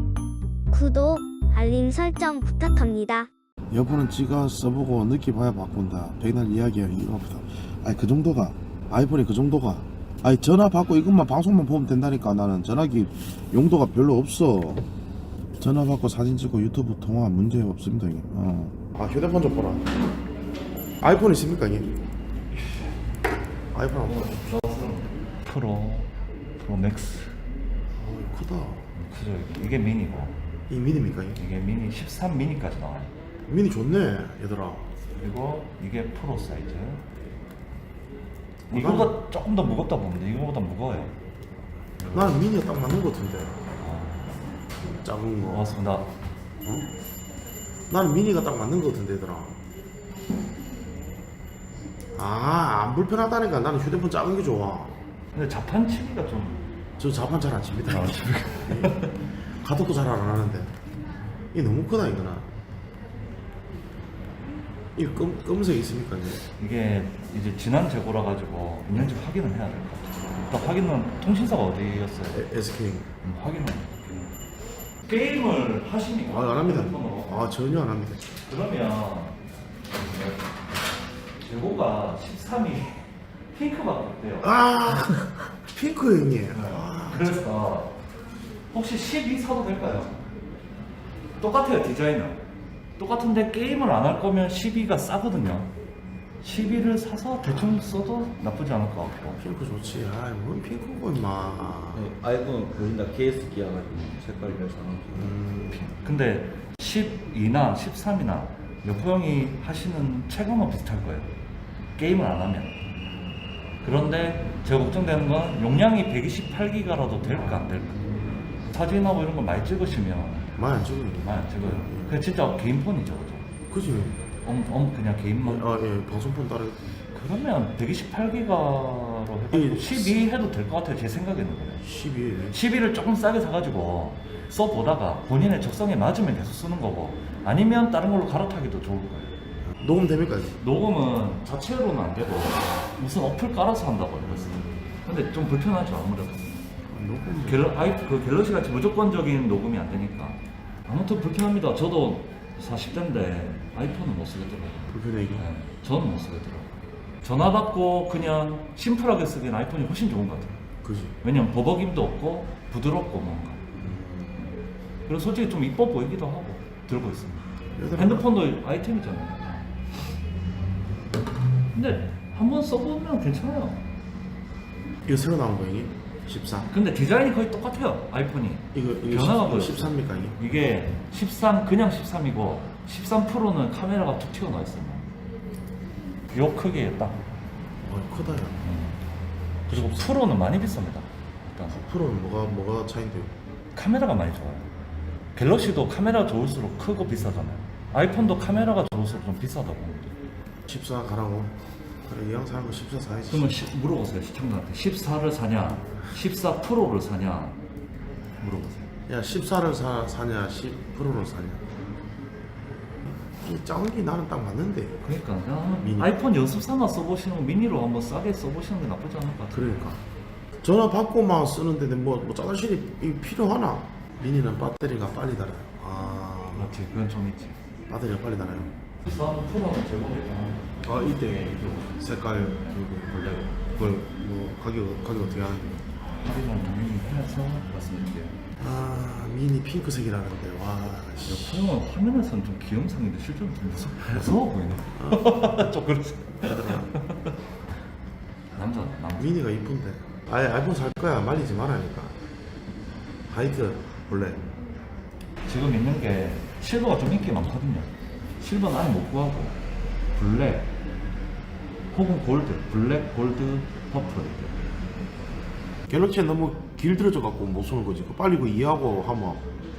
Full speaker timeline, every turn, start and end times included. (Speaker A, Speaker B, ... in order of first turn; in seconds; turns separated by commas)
Speaker A: 0.7-3.3, Speaker B: 3.7-14.8, Speaker B: 15.6-19.8, Speaker B: 21.0-21.9, Speaker B: 23.7-24.5, Speaker C: 24.0-27.4, Speaker B: 27.9-28.9, Speaker C: 28.9-30.4, Speaker B: 30.7-31.4, Speaker C: 31.4-33.1, Speaker B: 33.5-34.9, Speaker C: 35.1-37.0, Speaker B: 38.7-39.2, Speaker C: 38.7-41.2, Speaker C: 42.0-42.4, Speaker B: 42.1-43.6, Speaker C: 43.8-44.5, Speaker B: 44.8-45.7, Speaker C: 45.5-46.1, Speaker B: 46.6-46.9, Speaker B: 47.9-49.6, Speaker B: 52.1-55.0, Speaker C: 55.3-56.6, Speaker B: 57.0-59.0, Speaker C: 57.8-59.3, Speaker B: 59.6-60.8, Speaker B: 61.5-62.5, Speaker B: 65.0-66.4, Speaker C: 66.4-72.5, Speaker B: 72.3-73.1, Speaker C: 73.2-74.4, Speaker C: 75.0-77.5, Speaker B: 76.2-78.2, Speaker C: 78.4-79.4, Speaker C: 79.9-80.4, Speaker C: 81.4-84.5, Speaker B: 84.4-87.5, Speaker C: 86.5-88.0, Speaker C: 88.7-90.2, Speaker C: 91.4-92.4, Speaker C: 93.0-95.7, Speaker C: 96.4-99.4, Speaker B: 99.3-102.1, Speaker D: 101.9-105.3, Speaker C: 103.9-104.2, Speaker B: 105.1-105.9, Speaker C: 105.7-111.3, Speaker C: 112.0-112.8, Speaker C: 113.8-118.1, Speaker C: 118.7-120.6, Speaker B: 120.5-122.2, Speaker C: 121.2-123.5, Speaker B: 123.7-124.2, Speaker C: 124.4-125.7, Speaker B: 125.4-126.8, Speaker C: 127.1-131.8, Speaker B: 129.5-130.2, Speaker B: 131.8-132.6, Speaker C: 132.5-139.3, Speaker B: 139.7-140.6, Speaker C: 140.6-146.7, Speaker B: 144.2-144.8, Speaker B: 146.9-147.7, Speaker C: 147.4-160.7, Speaker B: 154.9-155.5, Speaker B: 160.8-161.2, Speaker C: 161.2-163.7, Speaker B: 163.7-164.5, Speaker C: 165.1-170.0, Speaker B: 167.8-168.3, Speaker C: 171.7-173.8, Speaker B: 175.0-176.7, Speaker C: 176.7-185.1, Speaker B: 178.7-180.4, Speaker C: 186.3-187.2, Speaker B: 187.8-188.7, Speaker C: 188.6-189.0, Speaker C: 189.7-191.8, Speaker B: 189.7-190.2, Speaker B: 191.7-193.3, Speaker C: 193.7-194.7, Speaker C: 195.3-200.2, Speaker B: 200.7-203.7, Speaker C: 203.3-207.6, Speaker C: 208.4-208.9, Speaker B: 209.1-211.7, Speaker B: 213.1-215.2, Speaker C: 215.0-219.7, Speaker B: 215.8-216.1, Speaker B: 219.5-220.0, Speaker B: 220.6-226.8, Speaker C: 226.5-227.6, Speaker B: 227.9-228.7, Speaker C: 229.0-230.8, Speaker B: 230.8-235.8, Speaker C: 231.5-231.9, Speaker C: 232.6-233.7, Speaker C: 236.0-238.4, Speaker B: 238.6-241.7, Speaker C: 241.2-247.3, Speaker B: 244.9-245.7, Speaker B: 246.4-246.9, Speaker C: 248.5-249.4, Speaker B: 249.2-252.2, Speaker B: 253.3-254.4, Speaker C: 255.4-259.6, Speaker C: 260.1-260.7, Speaker C: 261.9-264.6, Speaker B: 265.9-269.4